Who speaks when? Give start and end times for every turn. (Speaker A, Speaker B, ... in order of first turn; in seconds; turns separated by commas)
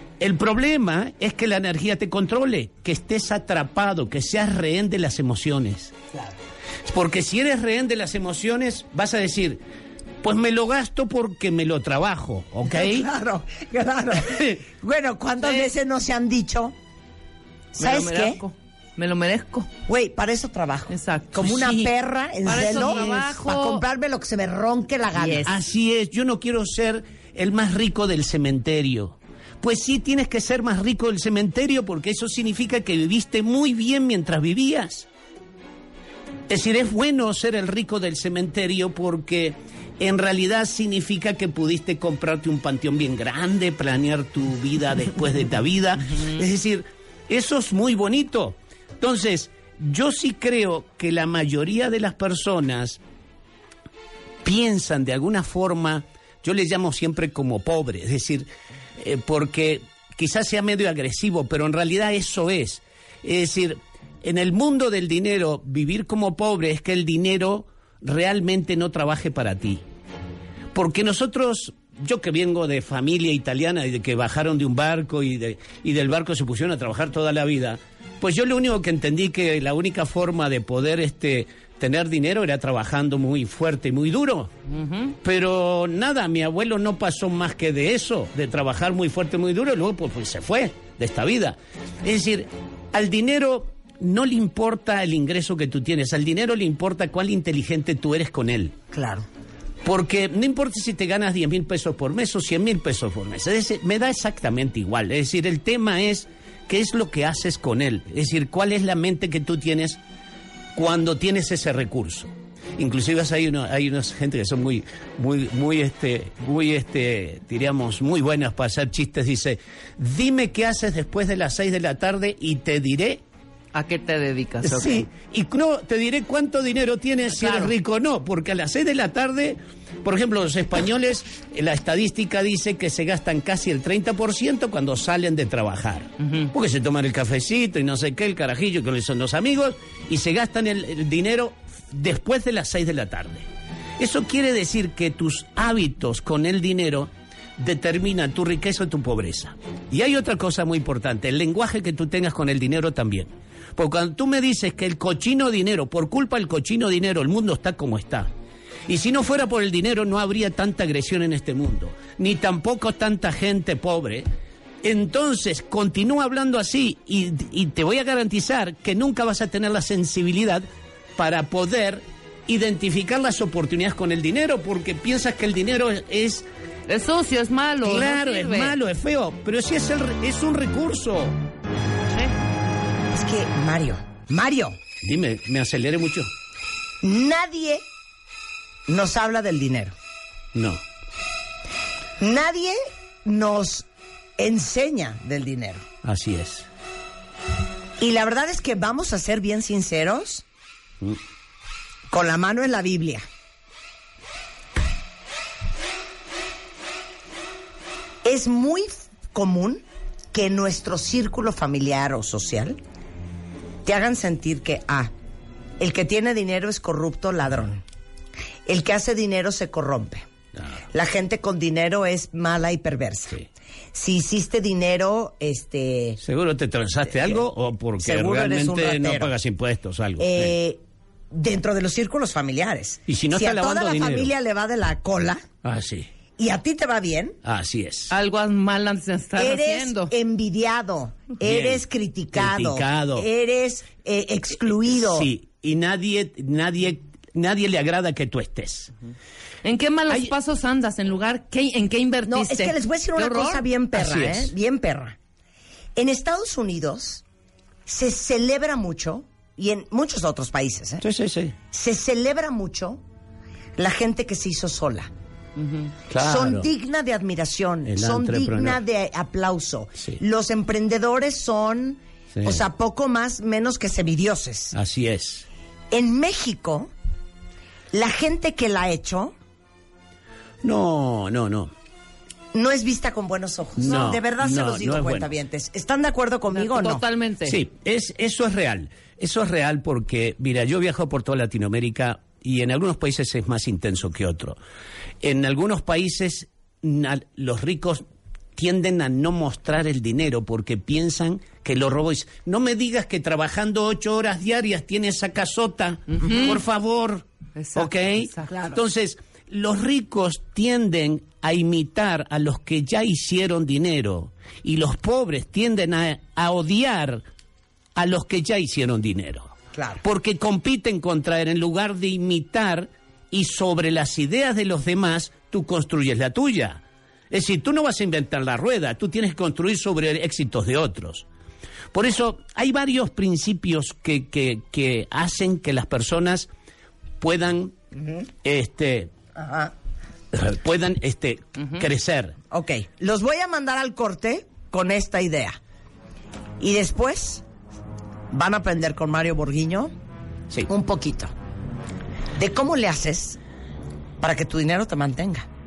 Speaker A: 0.2-5.9, Speaker A: 6.8-9.6, Speaker A: 10.2-13.1, Speaker B: 12.7-16.8, Speaker A: 14.2-14.6, Speaker C: 15.4-15.7, Speaker B: 17.7-18.4, Speaker C: 17.8-19.7, Speaker B: 19.9-25.5, Speaker C: 20.9-21.9, Speaker C: 22.4-23.8, Speaker C: 25.1-25.5, Speaker A: 25.4-35.1, Speaker A: 36.5-53.0, Speaker A: 54.4-69.8, Speaker A: 70.7-84.5, Speaker C: 84.7-85.1, Speaker A: 85.2-98.7, Speaker B: 98.9-99.2, Speaker A: 99.8-110.0, Speaker A: 110.8-123.2, Speaker C: 123.7-125.0, Speaker A: 124.6-143.4, Speaker C: 127.3-127.7, Speaker C: 136.2-136.5, Speaker A: 144.0-158.3, Speaker A: 158.9-164.3, Speaker A: 164.8-170.6, Speaker A: 171.2-176.4, Speaker C: 176.9-178.7, Speaker A: 177.8-181.4, Speaker B: 183.1-184.8, Speaker A: 185.0-186.3, Speaker B: 187.0-187.8, Speaker B: 188.9-189.9, Speaker A: 190.5-190.8, Speaker B: 192.2-193.9, Speaker B: 194.4-195.8, Speaker A: 196.0-196.7, Speaker B: 198.0-200.4, Speaker B: 202.1-203.2, Speaker B: 208.2-212.8, Speaker B: 213.8-215.1, Speaker B: 215.8-217.8, Speaker B: 218.7-220.2, Speaker B: 220.9-223.4, Speaker B: 223.9-226.2, Speaker A: 226.2-230.6, Speaker B: 228.0-229.3, Speaker B: 230.2-235.4, Speaker A: 233.1-234.3, Speaker A: 235.6-236.1, Speaker B: 236.4-237.4, Speaker A: 237.4-238.1, Speaker C: 238.1-240.1, Speaker B: 239.3-245.3, Speaker A: 241.4-243.3, Speaker A: 244.9-248.9, Speaker C: 249.6-253.7, Speaker B: 252.2-255.2, Speaker A: 253.9-254.5, Speaker B: 255.9-257.2, Speaker B: 257.9-261.0, Speaker A: 261.0-261.5, Speaker B: 261.7-263.0, Speaker B: 263.8-265.1, Speaker A: 266.1-266.7, Speaker B: 266.2-274.7, Speaker A: 267.8-268.8, Speaker A: 272.3-272.6, Speaker A: 274.7-275.4, Speaker B: 275.9-276.9, Speaker B: 277.9-279.4, Speaker A: 280.6-281.7, Speaker B: 282.5-287.0, Speaker A: 283.8-285.3, Speaker C: 286.5-287.6, Speaker A: 287.4-294.6, Speaker A: 295.2-298.0, Speaker A: 298.6-317.2, Speaker C: 306.1-306.6, Speaker C: 307.6-308.5, Speaker B: 308.5-308.8, Speaker A: 317.9-331.2, Speaker B: 319.7-320.0, Speaker A: 331.9-336.5, Speaker A: 337.2-337.7, Speaker B: 337.9-338.2, Speaker A: 338.4-339.1, Speaker B: 339.3-339.7, Speaker A: 340.3-342.4, Speaker B: 342.5-345.6, Speaker B: 346.6-347.4, Speaker B: 348.3-349.9, Speaker B: 350.7-351.3, Speaker B: 352.4-353.4, Speaker B: 354.2-355.5